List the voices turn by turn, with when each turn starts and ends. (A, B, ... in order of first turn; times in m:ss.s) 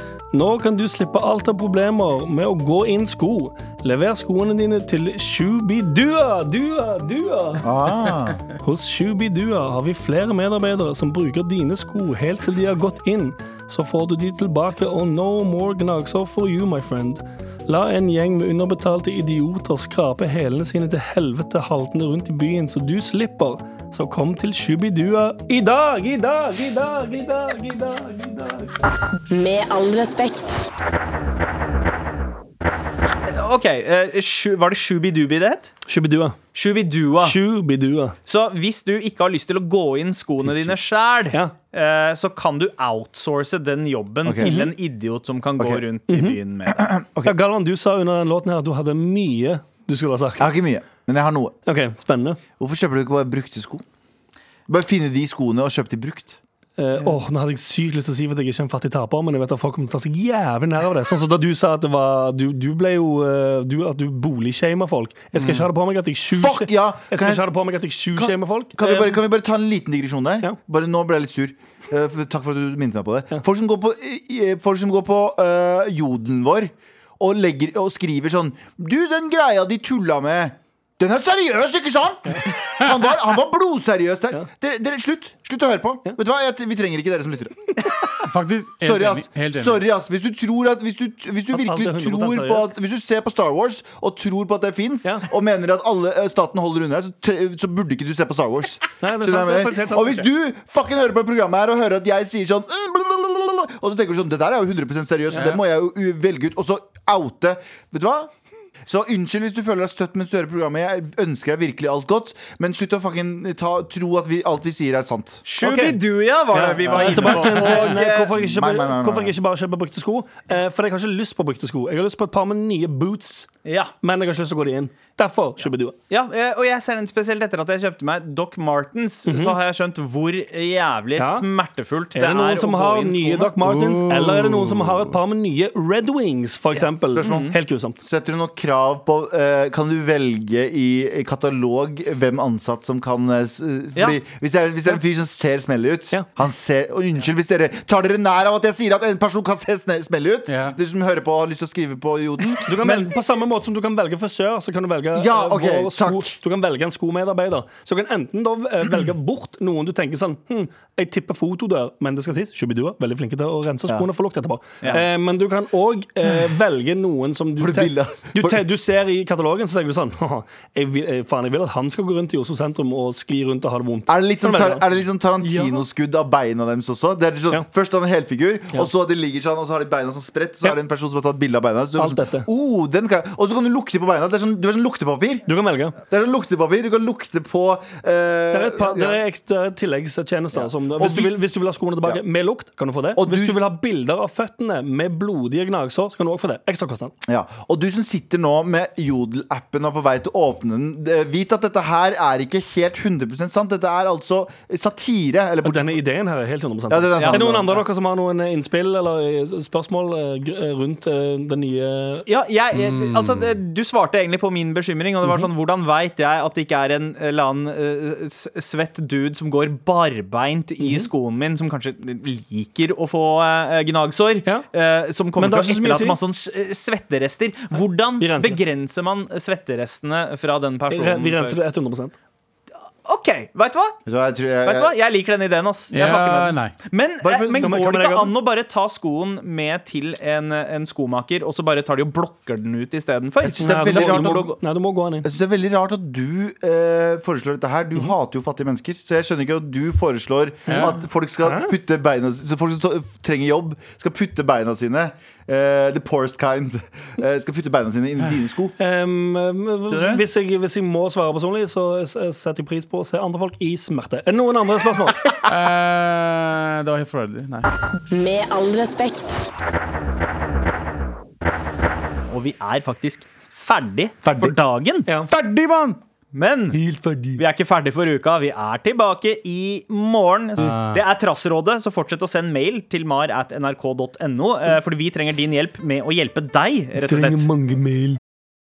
0:00.3-0:07.7 A
0:07.6-0:08.4 B
0:08.6-0:28.7 A
0:29.3-0:30.6 C
0:33.3-0:35.7 D
0:35.9-0:36.4 A
0:36.5-0:37.4 D
0:37.2-0:38.1 A
0:38.2-0:46.9 D
0:40.4-0:40.8 B
0:44.2-0:44.5 B
0:44.4-0:44.7 A
0:45.6-0:45.8 B
0:46.1-0:46.4 A
0:46.7-0:47.4 B
0:47.2-0:50.5 A
0:50.4-0:51.5 B
0:51.6-0:52.4 A
0:52.6-0:53.8 B
0:54.7-0:56.4 B
0:56.8-1:09.2 A
1:05.4-1:05.7 B
1:06.3-1:07.4 B
1:08.2-1:27.8 B
1:28.2-1:29.8 E
1:28.8-1:48.3 B
1:31.5-1:32.7 A
1:39.0-1:40.2 A
1:45.3-1:45.6 A
1:48.8-1:55.4 B
1:55.4-1:58.3 D
1:55.6-1:56.0 A
1:56.5-2:03.5 A
1:56.8-1:59.3 B
2:03.6-2:03.9 D
2:04.0-2:06.0 A
2:06.1-2:13.5 D
2:09.2-2:09.6 A
2:11.2-2:11.4 A
2:12.1-2:18.0 A
2:13.6-2:15.2 E
2:17.0-2:33.2 B
2:17.2-2:17.5 D
2:30.5-2:30.8 E
2:32.6-2:54.9 A
2:35.1-2:36.4 B
2:47.6-2:48.6 B
2:54.1-3:05.5 B
2:55.4-2:55.8 D
3:02.0-3:02.5 A
3:05.5-3:06.0 A
3:06.0-3:09.2 B
3:08.5-3:17.1 A
3:10.5-3:11.4 B
3:13.2-3:13.6 B
3:17.2-3:26.0 B
3:25.6-3:32.2 A
3:26.9-3:27.8 B
3:27.2-3:27.4 D
3:32.2-3:51.6 D
3:32.7-3:33.4 E
3:40.8-3:41.1 A
3:45.4-3:46.2 A
3:48.2-3:48.6 A
3:50.9-3:52.2 A
3:53.0-3:54.0 D
3:54.0-3:54.9 B
3:54.6-4:04.6 D
3:55.9-3:56.7 E
3:57.2-3:57.8 B
3:57.5-3:58.3 A
4:03.4-4:04.5 B
4:03.5-4:05.3 A
4:05.2-4:18.7 B
4:10.7-4:11.7 A
4:10.7-4:10.9 E
4:18.8-4:25.2 A
4:19.9-4:20.2 B
4:25.4-4:27.7 E
4:28.1-4:29.4 C
4:32.3-4:35.1 D
4:35.2-4:36.0 E
4:36.3-4:36.8 D
4:36.7-4:37.4 A
4:37.4-4:47.5 D
4:40.6-4:41.0 E
4:47.0-4:48.2 A